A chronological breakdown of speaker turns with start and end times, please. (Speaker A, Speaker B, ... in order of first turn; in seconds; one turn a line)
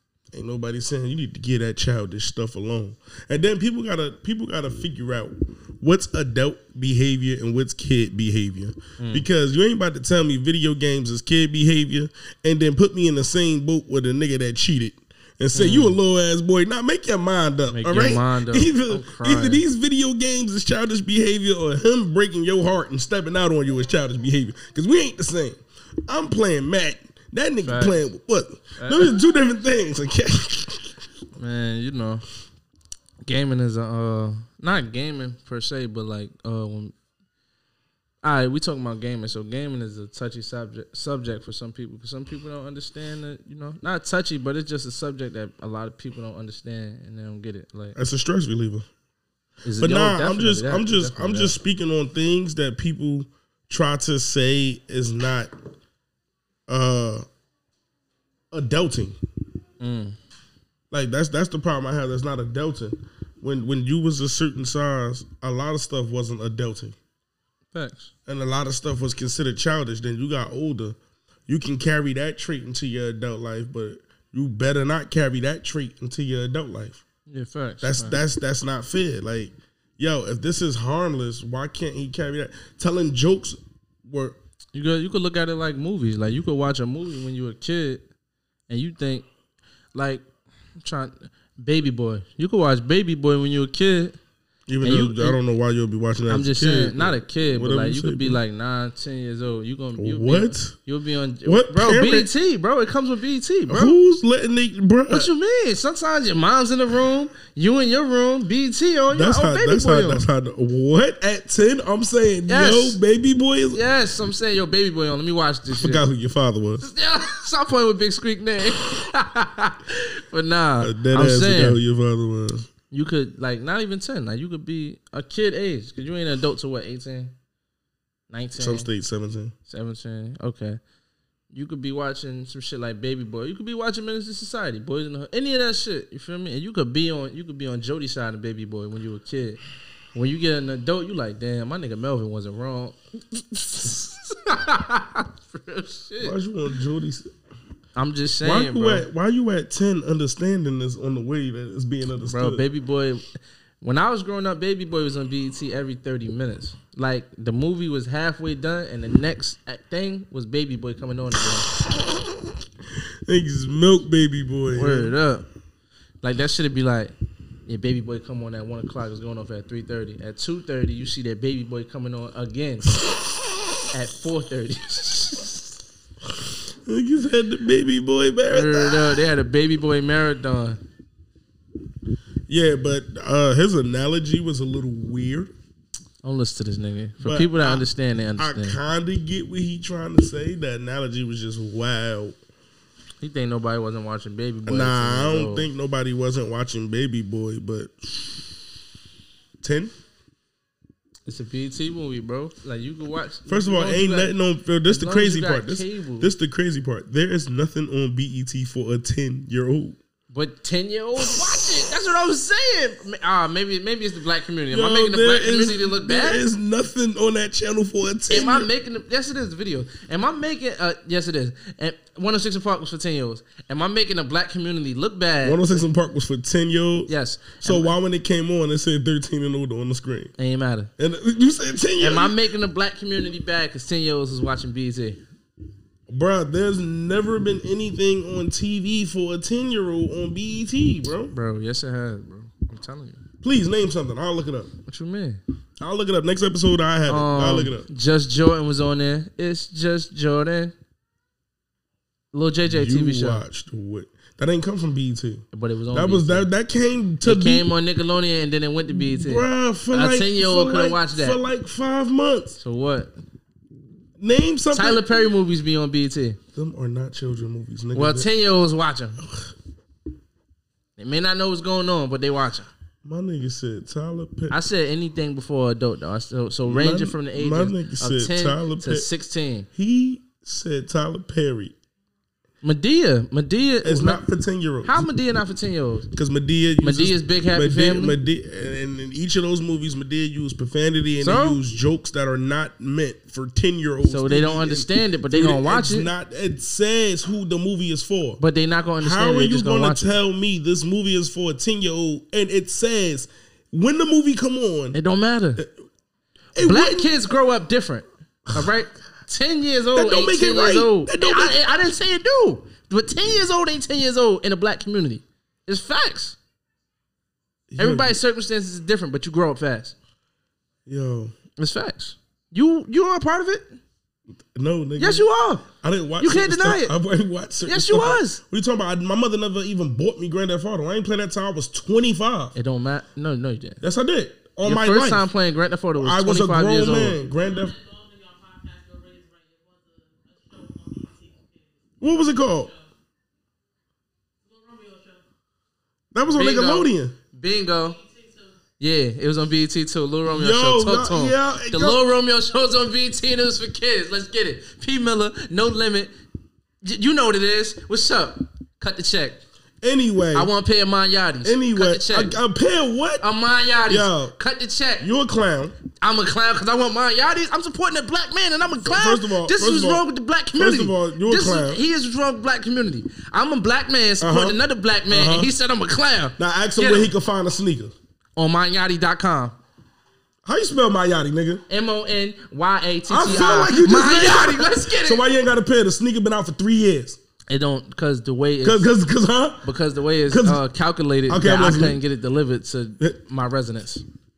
Speaker A: 0.3-30.9
Speaker B: 9.0-9.2
Speaker B: 15.5-16.0
Speaker B: 17.7-19.6
Speaker B: 27.6-28.0
Speaker B: 28.8-29.1
Speaker B: 31.4-32.2
Speaker B: 33.2-36.9
Speaker B: 38.2-48.0
Speaker A: 48.0-48.9
Speaker B: 49.6-51.5
Speaker A: 49.8-55.5
Speaker A: 56.7-57.3
Speaker A: 58.5-59.2
Speaker B: 59.8-60.2
Speaker A: 60.9-67.0
Speaker B: 67.7-68.1
Speaker A: 68.3-71.0
Speaker A: 71.5-77.0
Speaker B: 77.3-78.2
Speaker A: 77.8-84.4
Speaker B: 84.7-88.1
Speaker B: 88.7-89.3
Speaker B: 89.9-90.3
Speaker B: 90.8-94.2
Speaker A: 94.7-98.4
Speaker B: 94.8-95.4
Speaker B: 96.3-104.0
Speaker A: 100.0-100.8
Speaker A: 101.5-102.3
Speaker A: 103.7-105.3
Speaker B: 105.1-110.2
Speaker A: 109.1-113.8
Speaker B: 112.5-113.0
Speaker B: 113.7-116.0
Speaker A: 115.8-116.8
Speaker B: 116.8-121.8
Speaker A: 120.8-122.7
Speaker B: 122.9-127.3
Speaker B: 128.3-128.9
Speaker A: 128.6-129.5
Speaker B: 129.7-130.8
Speaker B: 131.5-139.6
Speaker B: 140.2-146.4
Speaker A: 146.2-147.3
Speaker B: 148.0-149.1
Speaker A: 148.4-152.6
Speaker B: 152.3-153.3
Speaker B: 153.8-161.7
Speaker A: 163.3-165.1
Speaker B: 164.7-165.5
Speaker B: 166.2-167.1
Speaker B: 167.7-173.0
Speaker B: 173.9-175.7
Speaker A: 176.8-179.2
Speaker B: 178.5-180.8
Speaker A: 182.5-185.5
Speaker B: 186.2-188.8
Speaker A: 187.2-192.4
Speaker B: 193.2-195.7
Speaker A: 194.7-198.6
Speaker A: 199.6-199.9
Speaker B: 201.3-204.3
Speaker A: 203.5-210.0
Speaker B: 204.9-206.3
Speaker B: 210.3-216.4
Speaker A: 211.2-211.7
Speaker A: 214.7-218.7
Speaker B: 218.3-225.7
Speaker A: 225.4-230.3
Speaker B: 227.1-227.9
Speaker B: 230.4-230.9
Speaker A: 231.0-232.3
Speaker B: 232.0-235.2
Speaker A: 236.1-241.3
Speaker B: 241.3-243.2
Speaker A: 243.4-244.7
Speaker B: 244.9-245.4
Speaker A: 245.8-247.9
Speaker B: 247.1-250.7
Speaker B: 252.3-253.4
Speaker A: 252.7-257.7
Speaker B: 255.5-256.5
Speaker B: 257.2-261.4
Speaker A: 258.9-262.6
Speaker B: 262.6-263.1
Speaker A: 264.2-265.3
Speaker B: 264.7-266.4
Speaker A: 266.6-268.3
Speaker B: 267.9-269.2
Speaker A: 269.2-269.5
Speaker B: 271.0-272.7
Speaker A: 273.1-274.6
Speaker B: 274.5-279.7
Speaker A: 276.7-279.1
Speaker A: 279.8-281.8
Speaker B: 282.6-284.2
Speaker A: 283.8-285.1
Speaker B: 284.8-286.1
Speaker A: 286.1-298.4
Speaker B: 286.8-288.2
Speaker B: 291.2-291.6
Speaker B: 294.1-296.1
Speaker B: 298.4-300.1
Speaker A: 299.0-305.0
Speaker B: 304.9-305.6
Speaker A: 306.6-307.1
Speaker B: 306.6-316.4
Speaker A: 309.9-311.6
Speaker A: 317.7-318.2
Speaker B: 317.8-319.9
Speaker A: 320.9-321.3
Speaker B: 321.6-323.8
Speaker A: 324.5-332.6
Speaker B: 325.0-325.7
Speaker B: 326.2-326.9
Speaker B: 327.7-328.4
Speaker B: 332.6-333.8
Speaker A: 333.8-335.3
Speaker B: 334.6-337.2
Speaker A: 336.0-337.8
Speaker C: 337.9-341.4
Speaker A: 342.0-342.7
Speaker C: 344.5-345.2
Speaker A: 346.1-347.1
Speaker B: 346.3-348.0
Speaker B: 348.8-356.1
Speaker A: 350.3-352.0
Speaker B: 356.8-359.4
Speaker A: 359.8-360.5
Speaker B: 360.3-362.4
Speaker A: 361.4-363.2
Speaker B: 363.2-365.1
Speaker A: 363.9-364.4
Speaker A: 365.0-365.8
Speaker B: 366.0-377.1
Speaker A: 368.8-370.0
Speaker A: 370.6-371.8
Speaker A: 374.2-375.5
Speaker A: 376.4-377.9
Speaker B: 378.4-379.6
Speaker A: 380.4-381.6
Speaker B: 381.7-385.2
Speaker A: 383.1-387.2
Speaker B: 387.5-388.9
Speaker A: 388.6-389.7
Speaker B: 389.6-394.0
Speaker A: 390.3-390.6
Speaker A: 391.3-392.0